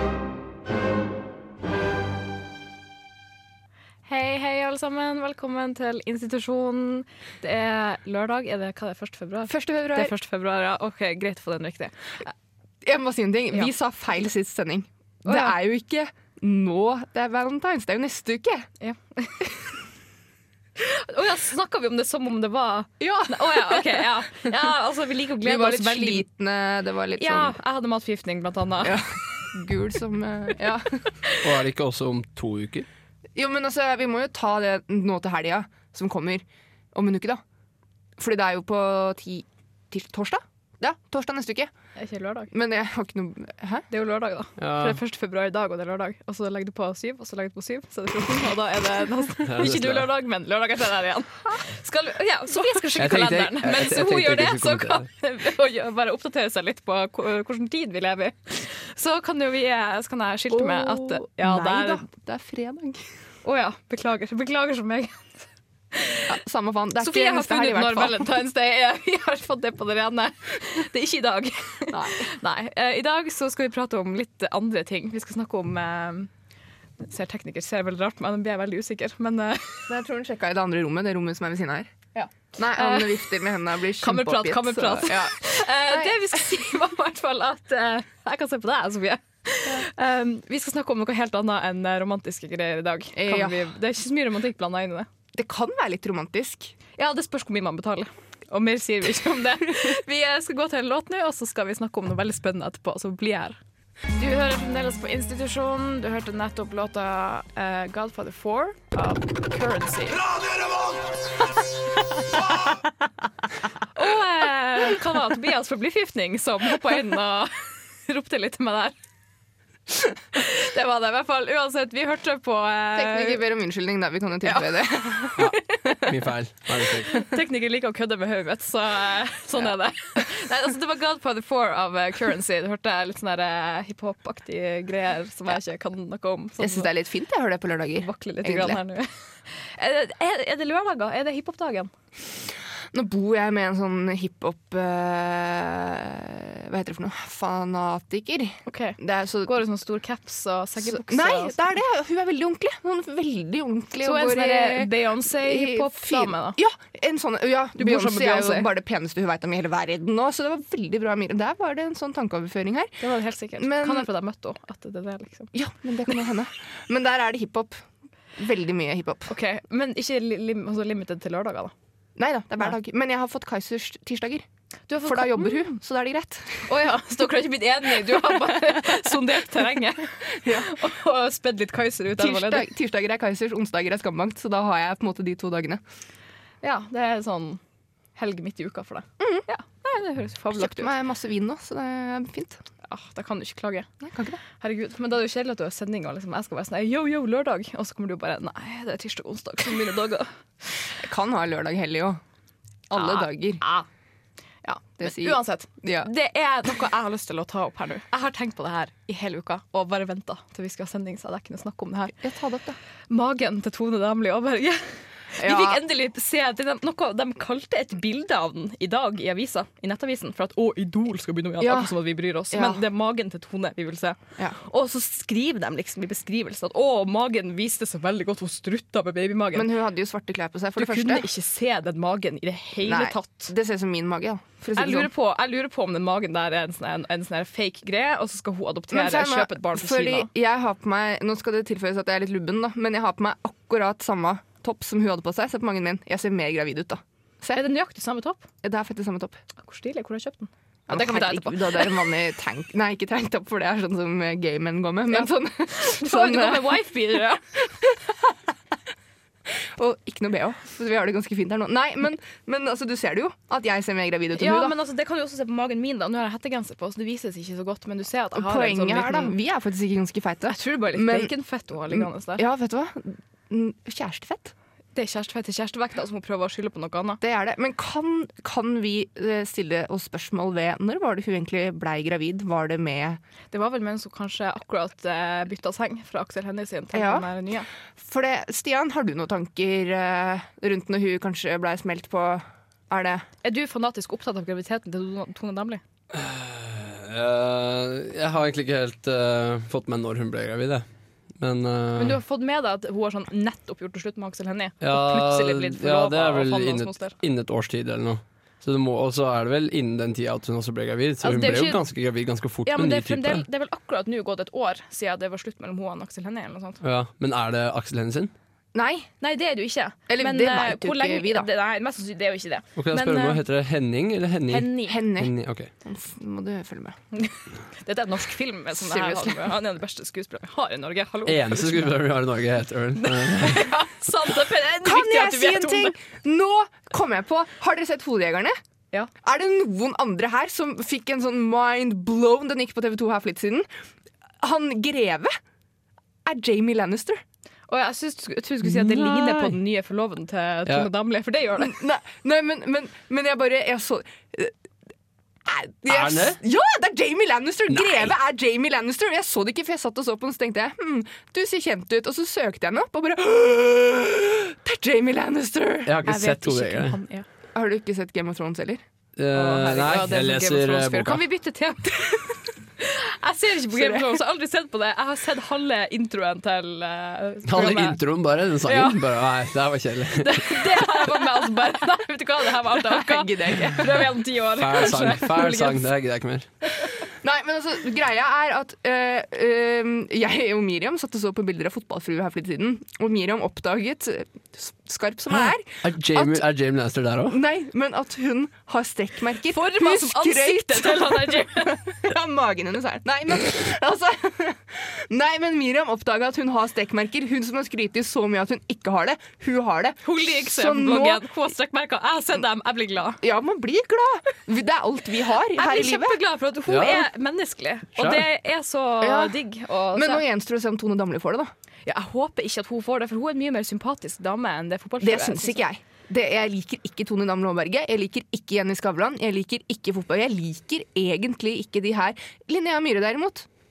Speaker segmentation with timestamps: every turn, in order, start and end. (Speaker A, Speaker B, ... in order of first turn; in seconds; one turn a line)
Speaker A: 4.1-12.3
Speaker B: 9.5-10.1
Speaker B: 12.8-18.7
Speaker A: 15.2-15.6
Speaker A: 18.8-19.7
Speaker A: 20.8-26.2
Speaker B: 23.0-24.7
Speaker B: 25.4-27.6
Speaker A: 27.2-29.0
Speaker B: 28.8-31.1
Speaker C: 31.4-32.9
Speaker B: 33.3-37.4
Speaker B: 38.2-41.7
Speaker A: 42.0-42.5
Speaker B: 42.5-43.9
Speaker A: 43.9-62.0
Speaker C: 44.6-45.0
Speaker C: 49.5-50.1
Speaker B: 52.5-52.9
Speaker C: 52.9-55.1
Speaker B: 60.5-63.1
Speaker A: 63.4-66.3
Speaker B: 66.3-68.3
Speaker A: 67.0-76.3
Speaker B: 71.9-72.3
Speaker A: 77.0-79.9
Speaker B: 79.9-81.9
Speaker A: 82.1-83.3
Speaker B: 82.6-86.1
Speaker A: 84.0-95.1
Speaker B: 93.1-93.7
Speaker B: 95.3-96.7
Speaker A: 97.0-103.6
Speaker A: 104.1-110.3
Speaker A: 113.9-118.9
Speaker A: 120.3-123.4
Speaker B: 122.9-125.5
Speaker A: 124.4-126.0
Speaker C: 125.3-127.2
Speaker A: 127.0-136.9
Speaker B: 136.6-138.8
Speaker A: 138.0-141.9
Speaker B: 142.9-149.6
Speaker A: 148.7-151.7
Speaker B: 150.8-163.0
Speaker A: 154.0-156.6
Speaker A: 157.8-158.7
Speaker A: 163.0-165.5
Speaker B: 163.6-164.1
Speaker B: 165.5-167.8
Speaker B: 168.4-169.3
Speaker A: 169.3-171.7
Speaker B: 172.2-174.4
Speaker A: 174.9-175.7
Speaker B: 175.0-176.7
Speaker A: 176.7-182.7
Speaker B: 180.4-180.8
Speaker B: 182.2-185.8
Speaker A: 186.6-187.6
Speaker A: 188.1-190.9
Speaker B: 189.2-189.4
Speaker B: 190.5-192.6
Speaker A: 192.8-193.9
Speaker B: 194.0-194.4
Speaker A: 194.6-200.8
Speaker B: 201.0-202.2
Speaker B: 202.9-203.6
Speaker A: 202.9-203.9
Speaker A: 204.6-212.1
Speaker B: 205.0-206.1
Speaker B: 212.2-212.8
Speaker A: 213.1-229.7
Speaker B: 215.4-215.8
Speaker B: 221.6-221.9
Speaker B: 222.5-222.8
Speaker B: 229.5-231.3
Speaker A: 230.8-233.5
Speaker B: 232.8-235.1
Speaker A: 234.7-240.3
Speaker B: 238.9-247.6
Speaker A: 247.5-248.4
Speaker B: 248.6-249.4
Speaker A: 249.6-252.0
Speaker B: 250.9-256.8
Speaker A: 255.1-257.6
Speaker B: 257.8-258.3
Speaker B: 259.6-264.7
Speaker A: 264.3-269.3
Speaker B: 268.3-271.3
Speaker A: 270.5-272.4
Speaker B: 271.9-274.5
Speaker A: 274.9-277.2
Speaker B: 277.2-283.2
Speaker A: 283.5-287.7
Speaker B: 286.9-287.3
Speaker B: 287.9-293.2
Speaker A: 293.4-295.8
Speaker C: 296.1-300.8
Speaker C: 301.4-302.2
Speaker A: 301.9-307.2
Speaker C: 304.8-313.4
Speaker A: 311.2-311.8
Speaker A: 312.6-316.8
Speaker C: 316.8-318.3
Speaker B: 318.7-319.1
Speaker A: 319.2-323.4
Speaker B: 320.1-321.5
Speaker C: 322.8-325.7
Speaker A: 324.5-325.0
Speaker B: 324.8-327.0
Speaker A: 327.1-331.9
Speaker B: 328.8-329.5
Speaker C: 331.2-333.8
Speaker A: 333.0-335.9
Speaker B: 334.8-338.5
Speaker B: 339.2-343.7
Speaker B: 344.4-345.3
Speaker B: 346.2-347.2
Speaker A: 347.7-351.7
Speaker C: 348.6-349.6
Speaker B: 351.6-354.6
Speaker B: 355.4-365.9
Speaker C: 355.9-356.4
Speaker C: 357.7-358.1
Speaker C: 365.9-367.0
Speaker A: 366.0-367.2
Speaker B: 367.5-368.8
Speaker C: 369.2-371.2
Speaker A: 369.3-378.0
Speaker B: 373.7-374.2
Speaker C: 377.5-380.6
Speaker A: 378.6-379.0
Speaker A: 380.2-385.9
Speaker B: 382.8-383.9
Speaker C: 384.6-386.5
Speaker B: 387.2-396.4
Speaker C: 395.4-397.4
Speaker B: 397.3-411.2
Speaker A: 399.5-401.9
Speaker A: 410.0-413.2
Speaker B: 413.2-416.2
Speaker A: 415.5-420.2
Speaker C: 416.7-417.1
Speaker C: 417.9-418.2
Speaker B: 419.0-419.4
Speaker B: 419.9-421.5
Speaker A: 421.9-425.6
Speaker B: 425.0-433.5